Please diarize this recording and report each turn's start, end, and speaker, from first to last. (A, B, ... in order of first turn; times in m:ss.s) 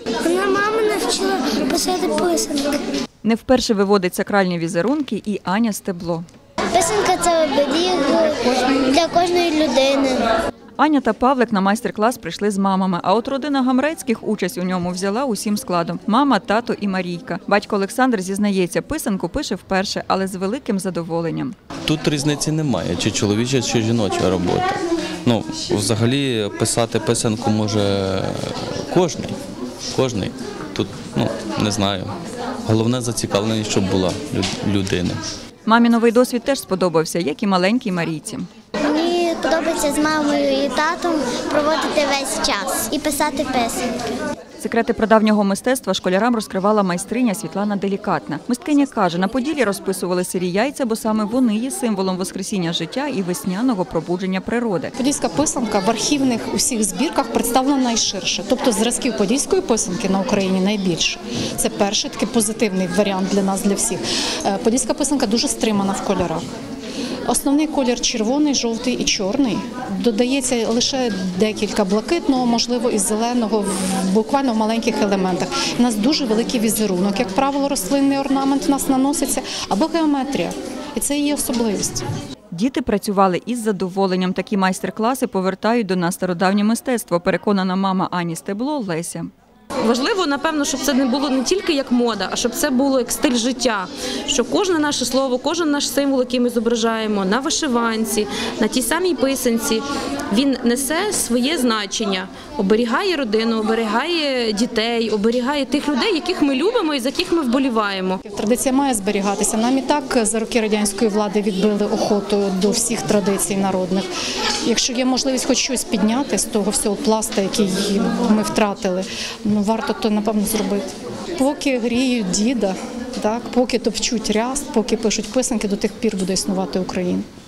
0:00.2-0:02.8 A
0:03.2-0:06.2 B
0:06.7-0:10.3 A
0:10.8-0:21.6 B
0:21.9-0:29.4 C
0:29.9-0:32.2 C
0:32.7-0:35.2 C
0:35.7-0:38.5 B
0:38.8-0:43.9 A
0:44.6-0:54.9 B
0:55.0-1:06.4 D
1:07.3-1:22.0 D
1:22.5-1:29.3 B
1:29.8-1:48.2 E
1:48.2-1:54.1 D
1:54.6-2:07.2 D